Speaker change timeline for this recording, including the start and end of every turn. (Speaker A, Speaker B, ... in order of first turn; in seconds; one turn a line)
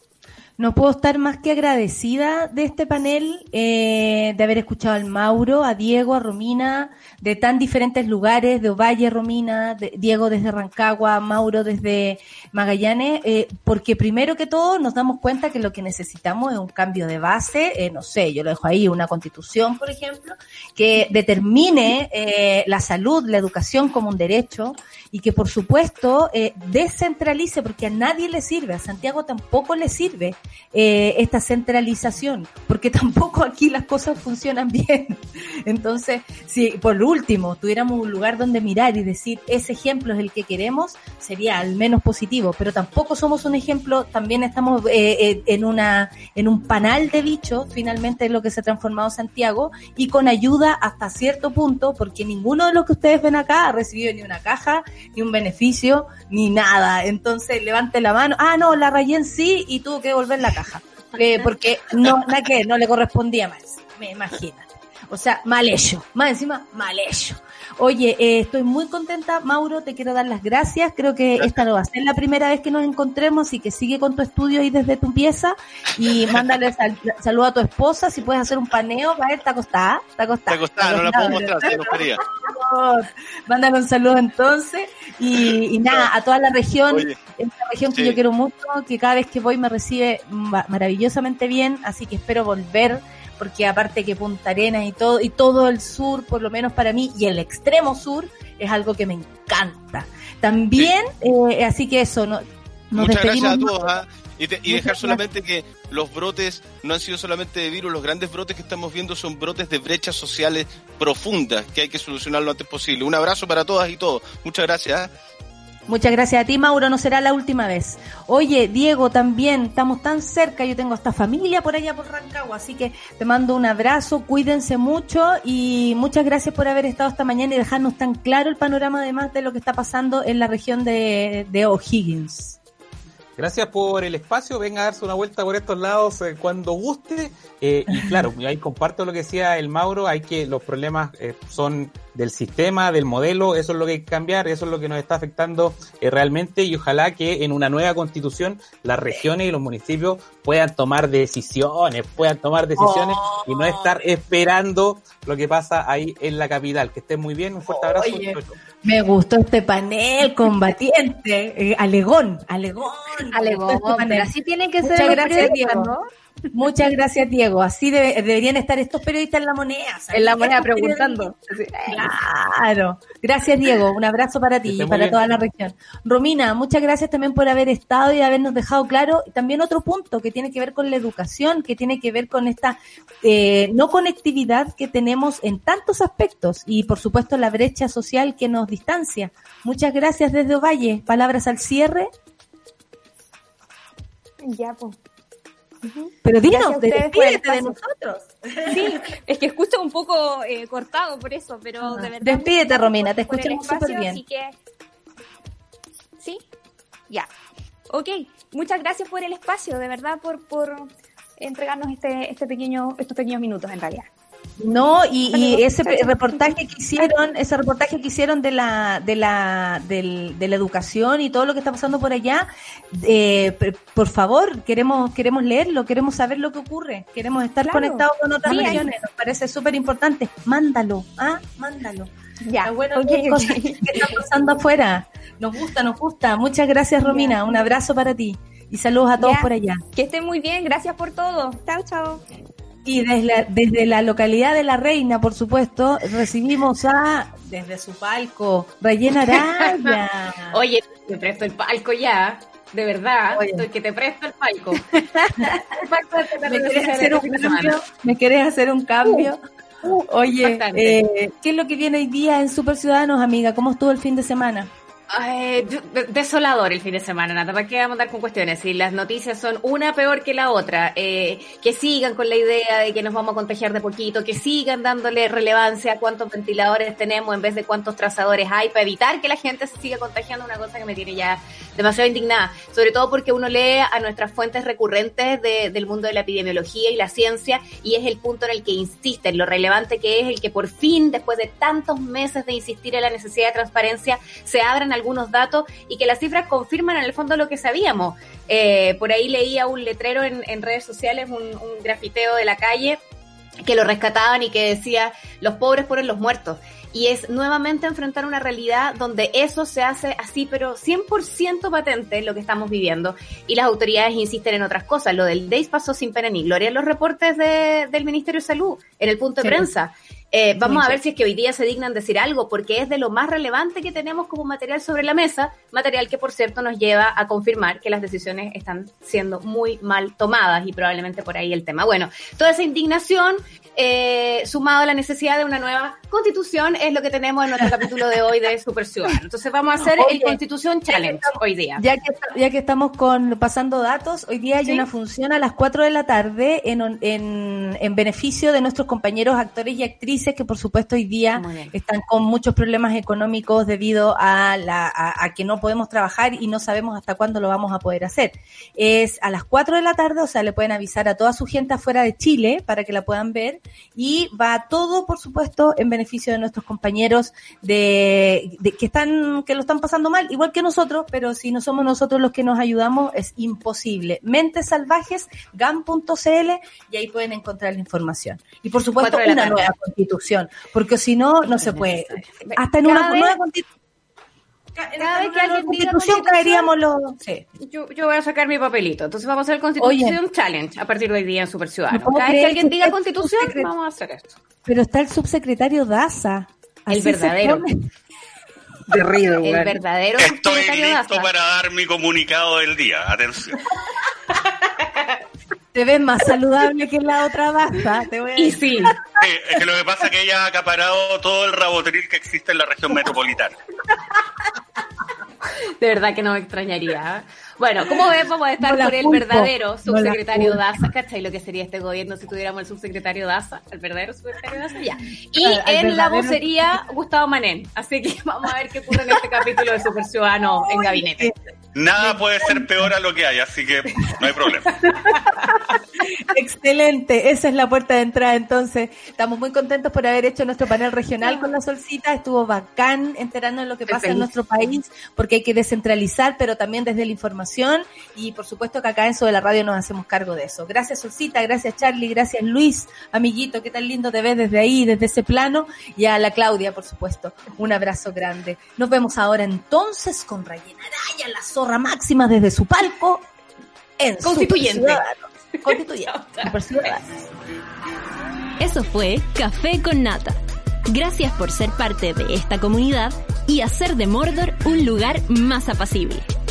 Speaker A: 0.6-103.9
Speaker B: 80.5-82.2
Speaker B: 86.9-87.1
Speaker B: 87.9-88.2
Speaker B: 102.9-115.1
Speaker A: 104.7-105.2
Speaker A: 115.9-132.6
Speaker C: 133.4-158.6
Speaker A: 137.9-138.2
Speaker A: 152.8-153.9
Speaker A: 157.7-164.3
Speaker D: 163.3-166.0
Speaker A: 164.8-165.9
Speaker A: 166.5-171.3
Speaker D: 170.1-172.1
Speaker A: 171.9-192.1
Speaker C: 174.6-175.2
Speaker E: 194.4-194.9
Speaker E: 195.8-197.7
Speaker A: 196.2-199.0
Speaker E: 198.7-204.5
Speaker A: 201.8-204.2
Speaker E: 206.2-206.4
Speaker E: 207.9-214.1
Speaker A: 214.6-232.1
Speaker E: 215.3-217.1
Speaker E: 227.6-228.9
Speaker E: 232.4-234.2
Speaker A: 232.6-239.8
Speaker E: 237.0-237.4
Speaker E: 239.2-242.2
Speaker A: 242.8-250.6
Speaker F: 249.6-249.9
Speaker F: 250.5-255.8
Speaker A: 253.3-253.7
Speaker A: 255.4-264.7
Speaker F: 256.3-257.8
Speaker F: 260.4-261.0
Speaker F: 265.1-303.0
Speaker F: 303.6-341.8
Speaker A: 319.4-319.7
Speaker A: 320.6-321.0
Speaker A: 339.8-383.6
Speaker F: 351.3-351.7
Speaker F: 379.0-379.7
Speaker F: 381.4-383.3
Speaker A: 384.8-387.4
Speaker F: 385.0-386.7
Speaker F: 387.6-394.4
Speaker A: 389.8-390.2
Speaker A: 391.9-393.7
Speaker A: 394.6-397.7
Speaker F: 396.9-397.6
Speaker D: 398.9-399.8
Speaker F: 399.0-401.3
Speaker G: 400.2-403.6
Speaker A: 405.7-408.9
Speaker F: 408.4-409.1
Speaker G: 409.1-413.6
Speaker F: 415.8-431.3
Speaker A: 418.6-420.8
Speaker A: 425.4-426.5
Speaker A: 430.7-431.4
Speaker G: 431.7-434.8
Speaker A: 432.0-432.7
Speaker A: 434.8-435.4
Speaker A: 436.0-463.2
Speaker D: 443.9-444.3
Speaker A: 464.0-467.2
Speaker F: 464.2-465.0
Speaker F: 465.6-466.9
Speaker H: 468.6-470.4
Speaker H: 470.9-476.2